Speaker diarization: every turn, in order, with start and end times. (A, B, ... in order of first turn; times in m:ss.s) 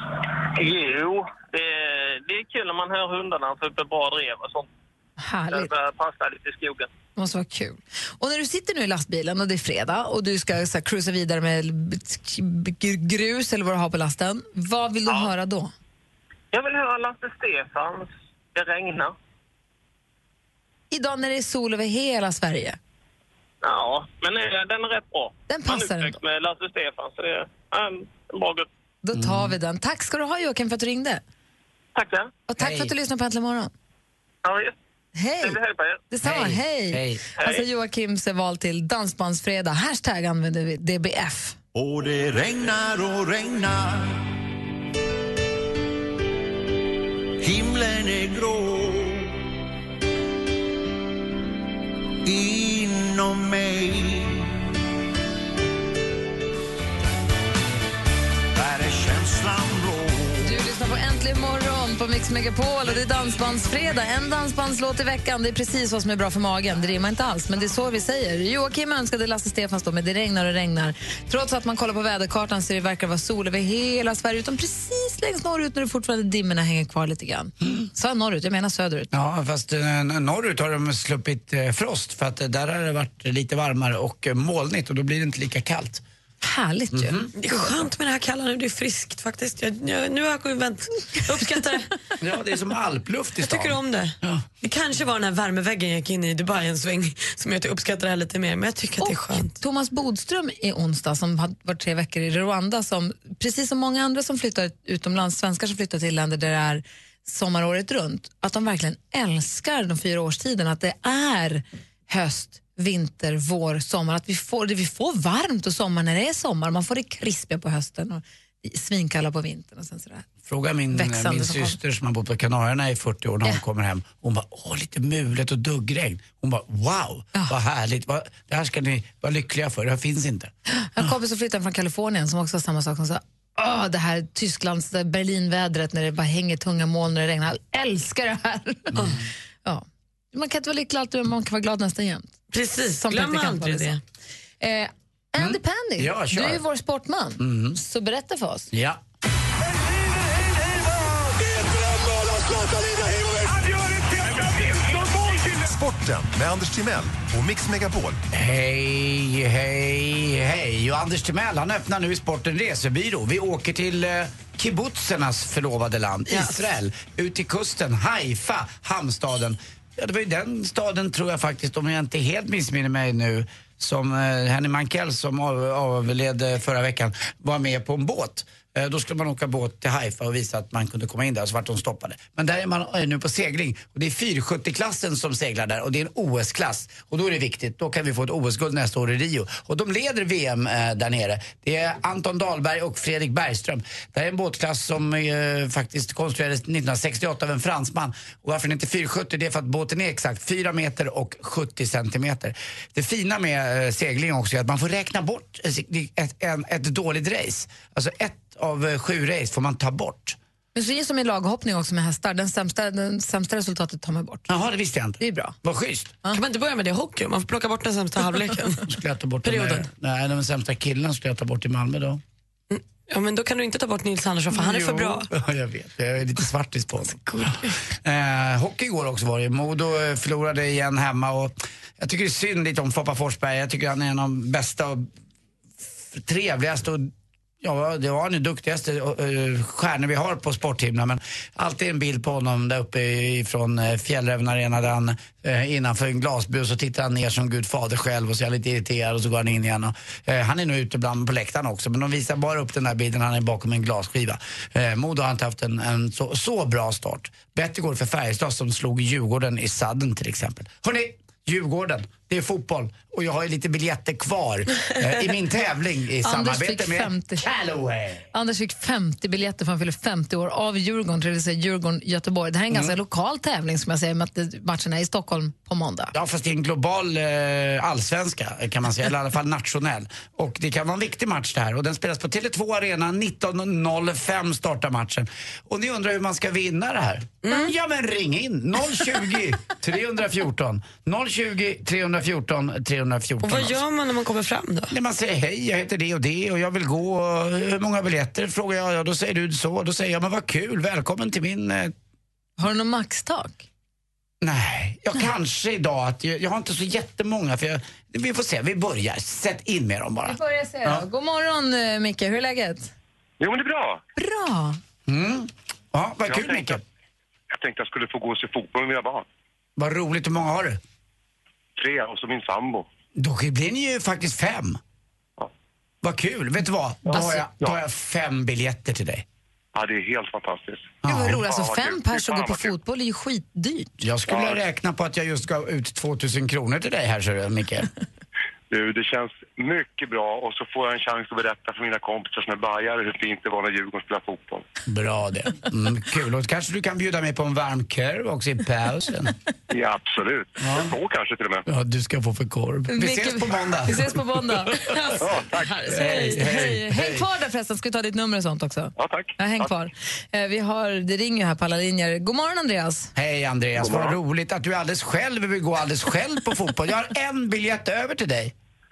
0:00.6-0:04.7 A
0:05.2-0:05.7 B
0:05.5-0:06.9 A
0:07.2-0:15.7 B
0:16.5-0:19.2 A
0:20.9-0:22.8 B
0:23.6-0:28.7 A
0:25.5-0:26.2 B
0:29.0-0:31.2 B
0:29.1-0:29.6 C
0:32.0-0:32.3 A
0:32.5-0:33.7 B
0:32.6-0:32.9 C
0:34.4-0:34.8 A
0:35.2-0:41.6 B
0:35.4-0:36.0 A
0:36.2-0:37.2 C
0:37.4-0:37.6 A
0:41.7-0:44.2 D
0:47.4-0:49.4 D
0:52.2-0:54.6 D
0:58.5-1:00.6 D
1:00.4-1:19.1 B
1:19.1-1:26.0 C
1:26.4-1:27.2 B
1:26.9-1:27.3 C
1:27.4-1:31.9 E
1:32.2-1:34.4 C
1:33.4-1:39.6 E
1:39.0-2:00.3 B
2:00.5-2:11.1 C
2:00.9-2:01.8 B
2:10.7-2:19.0 B
2:19.0-2:19.2 C
2:19.6-2:22.4 B
2:22.5-2:24.0 E
2:23.0-2:24.0 B
2:24.6-2:28.7 B
2:25.4-2:26.6 C
2:27.4-2:27.8 C
2:28.7-2:29.0 C
2:34.6-2:38.2 F
2:38.3-3:30.4 C
3:30.8-3:34.5 B
3:34.5-3:36.1 C
3:35.2-3:35.6 B
3:36.3-3:38.9 E
3:38.9-3:42.2 C
3:39.4-3:39.9 E
3:42.7-3:45.3 E
3:44.5-3:55.1 C
3:55.8-4:28.3 C
4:26.2-4:27.5 B
4:28.3-4:36.1 B
4:36.1-4:53.8 C
4:47.4-4:47.7 E
4:53.4-4:54.9 E
4:54.9-5:01.9 C
5:02.6-5:03.6 B
5:04.4-5:11.0 C
5:10.3-5:12.9 B
5:13.4-5:13.9 G
5:14.2-5:14.8 B
5:15.1-5:16.8 C
5:19.8-5:20.8 C
5:23.2-5:24.8 C
5:26.0-5:29.2 C
5:27.1-5:27.4 B
5:31.0-5:31.4 C
5:31.0-5:33.9 B
5:32.1-5:32.4 G
5:34.0-5:37.9 C
5:44.9-5:49.3 C
5:49.8-5:50.4 G
5:50.6-5:51.0 C
5:51.1-5:51.4 G
5:51.7-5:54.4 C
5:52.9-5:54.8 B
5:54.9-5:56.5 E
5:55.9-5:57.3 C
5:56.1-6:03.1 B
5:59.0-5:59.3 G
6:03.2-6:08.5 C